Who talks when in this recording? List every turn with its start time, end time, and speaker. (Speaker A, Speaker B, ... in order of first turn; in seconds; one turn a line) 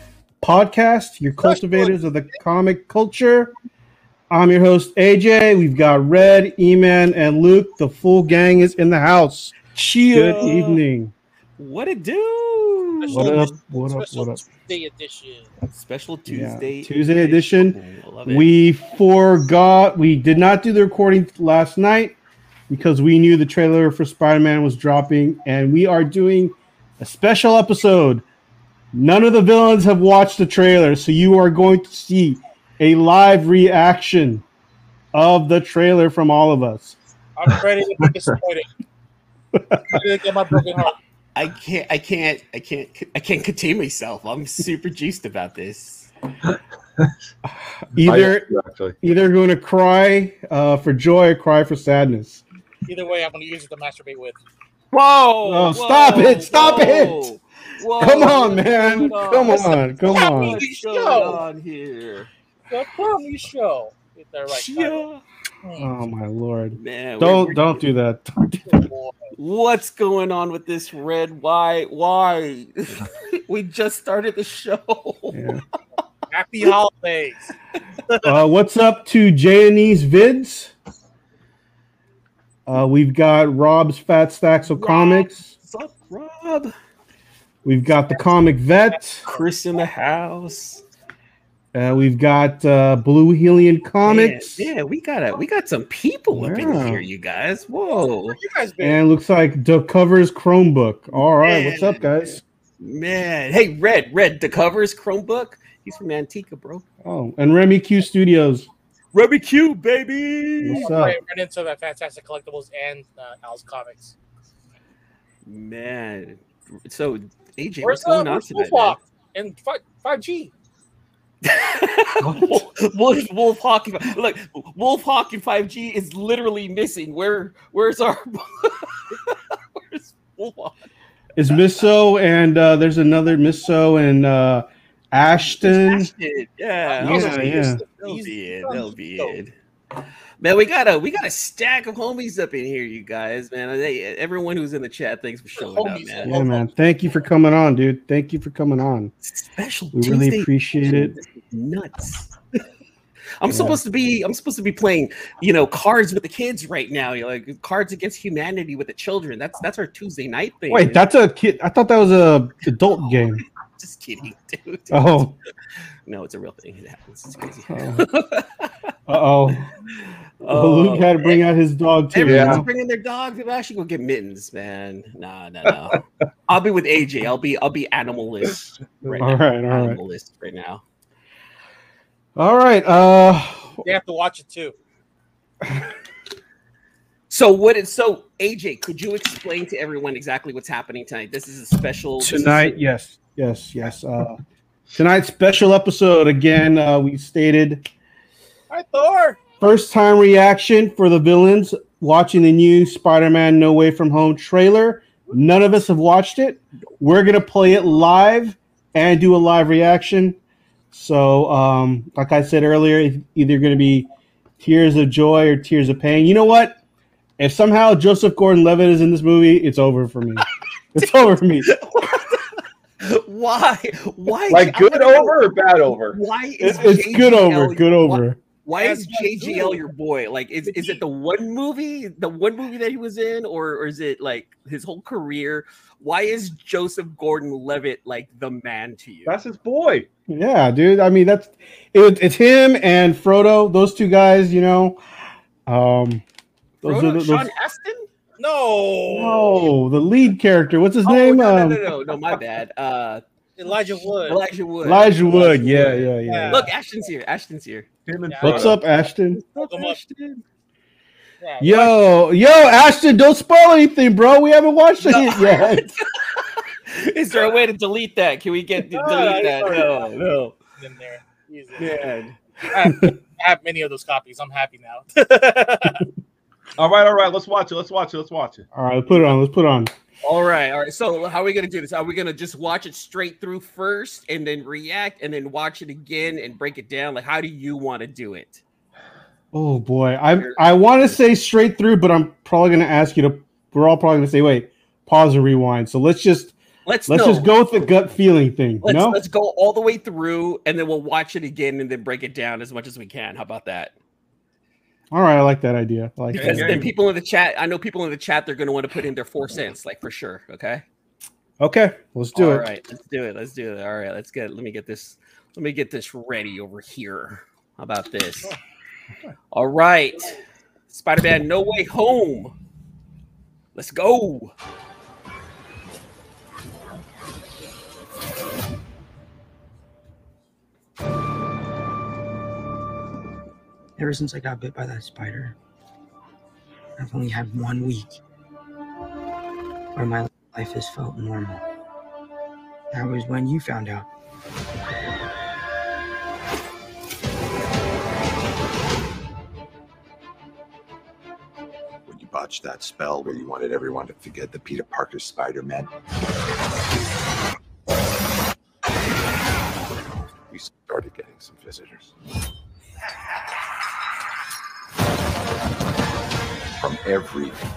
Speaker A: 0.4-3.5
Speaker A: 4.3-11.1
Speaker B: 10.1-10.8
Speaker B: 11.6-13.6
Speaker C: 13.0-15.5
Speaker A: 13.1-14.4
Speaker B: 15.7-18.5
Speaker A: 16.3-22.1
Speaker A: 22.7-28.2
Speaker A: 28.9-34.4
Speaker A: 35.1-37.0
Speaker C: 37.4-38.7
Speaker C: 39.9-41.0
Speaker B: 41.3-46.1
Speaker A: 47.5-48.5
Speaker D: 48.0-49.0
Speaker A: 49.0-52.4
Speaker C: 52.9-54.4
Speaker B: 54.9-62.3
Speaker A: 55.4-57.3
Speaker A: 58.0-60.6
Speaker C: 60.1-61.4
Speaker C: 62.7-65.0
Speaker B: 64.5-65.2
Speaker C: 65.6-65.9
Speaker A: 65.8-68.8
Speaker B: 66.7-67.7
Speaker C: 68.7-69.3
Speaker B: 69.3-75.5
Speaker A: 75.3-75.6
Speaker C: 76.3-77.5
Speaker A: 78.2-80.7
Speaker A: 82.7-85.5
Speaker B: 84.7-86.7
Speaker A: 87.6-89.2
Speaker B: 89.2-90.8
Speaker A: 91.7-94.7
Speaker B: 94.0-98.4
Speaker A: 96.3-97.0
Speaker C: 98.2-99.0
Speaker A: 98.8-102.4
Speaker C: 101.4-102.0
Speaker B: 102.8-106.8
Speaker A: 107.0-108.7
Speaker B: 109.1-110.9
Speaker A: 110.6-111.2
Speaker C: 110.7-114.1
Speaker B: 115.4-119.0
Speaker C: 117.8-120.5
Speaker B: 121.4-130.9
Speaker A: 122.2-122.6
Speaker A: 131.3-136.1
Speaker B: 135.3-139.5
Speaker C: 136.9-139.4
Speaker A: 137.0-137.8
Speaker B: 140.4-146.3
Speaker C: 145.6-146.7
Speaker A: 146.2-149.1
Speaker B: 149.2-152.3
Speaker A: 149.9-151.1
Speaker B: 153.4-161.0
Speaker A: 153.5-153.8
Speaker A: 160.7-163.4
Speaker B: 163.8-165.2
Speaker A: 164.9-165.3
Speaker B: 166.1-168.9
Speaker A: 167.7-168.1
Speaker A: 169.1-169.7
Speaker B: 170.4-171.4
Speaker A: 170.4-172.7
Speaker B: 172.1-180.8
Speaker D: 172.2-172.6
Speaker A: 179.0-180.0
Speaker A: 182.3-183.8
Speaker C: 183.8-184.7
Speaker B: 187.3-192.8
Speaker A: 192.2-194.4
Speaker A: 194.9-197.9
Speaker C: 198.7-199.4
Speaker A: 199.6-210.4
Speaker A: 210.9-216.8
Speaker A: 217.4-221.7
Speaker B: 221.0-222.4
Speaker B: 223.0-225.4
Speaker D: 224.5-226.2
Speaker B: 226.0-239.4
Speaker A: 226.6-228.4
Speaker C: 228.8-229.8
Speaker C: 230.7-231.0
Speaker D: 239.2-240.1
Speaker A: 240.3-245.0
Speaker A: 245.7-246.2
Speaker A: 246.8-247.5
Speaker B: 246.8-248.1
Speaker C: 248.4-249.7
Speaker A: 249.1-251.8
Speaker B: 251.0-257.9
Speaker C: 253.6-254.4
Speaker A: 254.8-256.6
Speaker D: 255.7-256.0
Speaker C: 256.1-256.7
Speaker D: 258.1-258.8
Speaker C: 258.3-258.8
Speaker A: 258.4-259.4
Speaker B: 259.3-260.4
Speaker C: 259.4-260.0
Speaker C: 261.4-261.9
Speaker A: 261.6-265.9
Speaker B: 265.0-270.6
Speaker C: 268.9-270.1
Speaker C: 270.8-272.1
Speaker B: 271.8-272.4
Speaker C: 272.7-276.0
Speaker D: 276.8-278.7
Speaker A: 278.7-279.9
Speaker B: 280.2-288.6
Speaker A: 289.5-296.5
Speaker B: 290.4-291.1
Speaker B: 296.9-297.5
Speaker A: 297.1-299.2
Speaker B: 298.8-303.9
Speaker A: 305.1-306.8
Speaker D: 306.3-306.9
Speaker B: 306.3-310.8
Speaker A: 311.6-312.7
Speaker B: 312.3-318.5
Speaker B: 319.5-320.3
Speaker B: 320.9-322.5
Speaker B: 323.7-324.5
Speaker E: 334.0-335.6
Speaker E: 337.0-338.2
Speaker E: 339.9-341.6
Speaker E: 342.9-344.1
Speaker F: 352.1-355.9
Speaker F: 360.5-362.1
Speaker F: 366.8-367.6